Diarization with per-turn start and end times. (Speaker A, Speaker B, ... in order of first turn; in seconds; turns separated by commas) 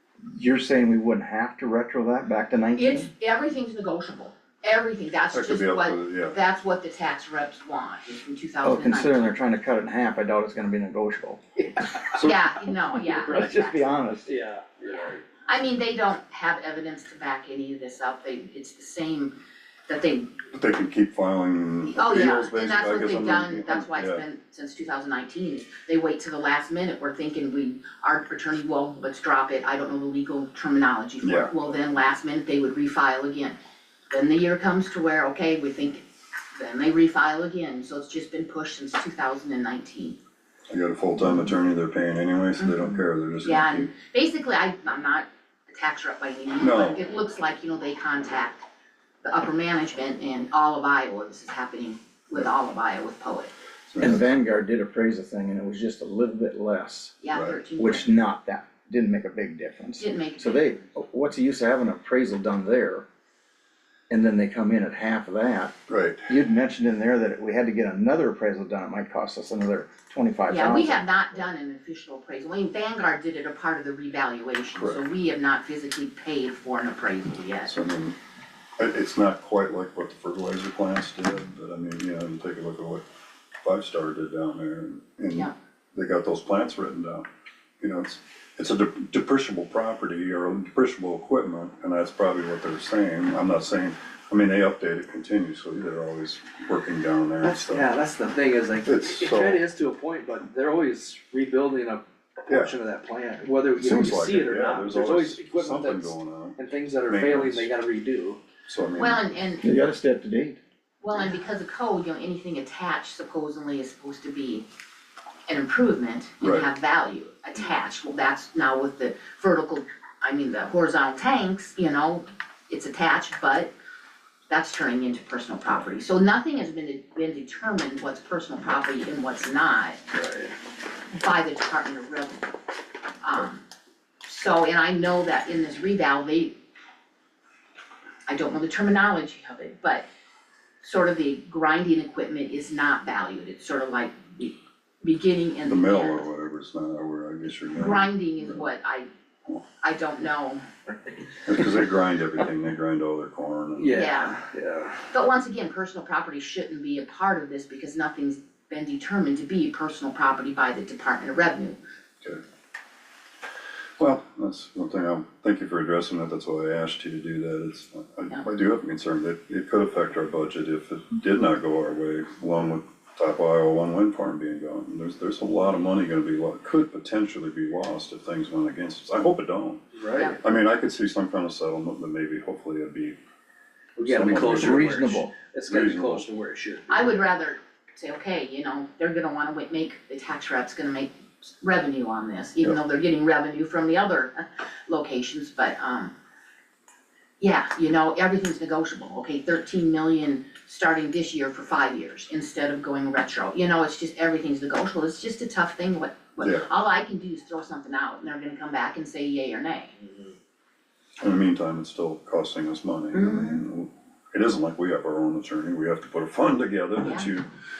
Speaker A: 0.3-3.1, Speaker B: 2.8-9.3, Speaker C: 5.3-6.4, Speaker A: 8.6-14.3, Speaker B: 12.2-13.9, Speaker D: 14.3-15.2, Speaker B: 14.9-19.4, Speaker B: 19.9-20.5, Speaker C: 20.5-24.2, Speaker B: 21.9-33.6, Speaker C: 31.2-31.6, Speaker B: 34.1-40.2, Speaker C: 40.7-43.9, Speaker B: 42.6-48.6, Speaker C: 46.6-47.0, Speaker B: 49.2-53.5, Speaker C: 53.9-54.2, Speaker A: 54.0-57.2, Speaker B: 57.2-58.1, Speaker C: 57.3-57.6, Speaker A: 57.8-63.1, Speaker B: 60.0-60.7, Speaker A: 64.1-65.7, Speaker C: 65.9-66.3, Speaker A: 66.3-71.0, Speaker B: 70.5-77.7, Speaker C: 74.8-75.0, Speaker C: 77.7-78.1, Speaker C: 78.8-83.0, Speaker C: 83.6-87.2, Speaker C: 87.8-97.9, Speaker D: 97.4-108.4, Speaker C: 98.8-99.6, Speaker C: 102.5-102.7, Speaker C: 103.7-107.7, Speaker C: 108.7-109.2, Speaker B: 109.0-109.7, Speaker A: 109.6-110.6, Speaker B: 111.0-114.7, Speaker B: 115.5-123.7, Speaker C: 116.4-116.7, Speaker B: 124.5-130.1, Speaker D: 130.2-130.5, Speaker B: 131.1-132.5, Speaker B: 133.2-133.6, Speaker B: 134.2-136.6, Speaker B: 138.3-140.1, Speaker B: 140.8-146.3, Speaker C: 145.7-148.6, Speaker B: 147.7-149.1, Speaker B: 149.7-150.6, Speaker C: 151.4-154.1, Speaker D: 153.8-155.0, Speaker B: 153.9-154.4, Speaker B: 155.1-161.8, Speaker C: 164.0-179.8, Speaker D: 179.9-180.4, Speaker C: 180.4-183.2, Speaker D: 184.0-187.1, Speaker C: 184.1-184.9, Speaker A: 184.3-185.3, Speaker C: 185.7-186.2, Speaker B: 186.9-196.1, Speaker B: 197.4-209.9, Speaker C: 206.4-206.7, Speaker C: 211.2-217.5, Speaker B: 213.1-213.6, Speaker B: 217.0-217.3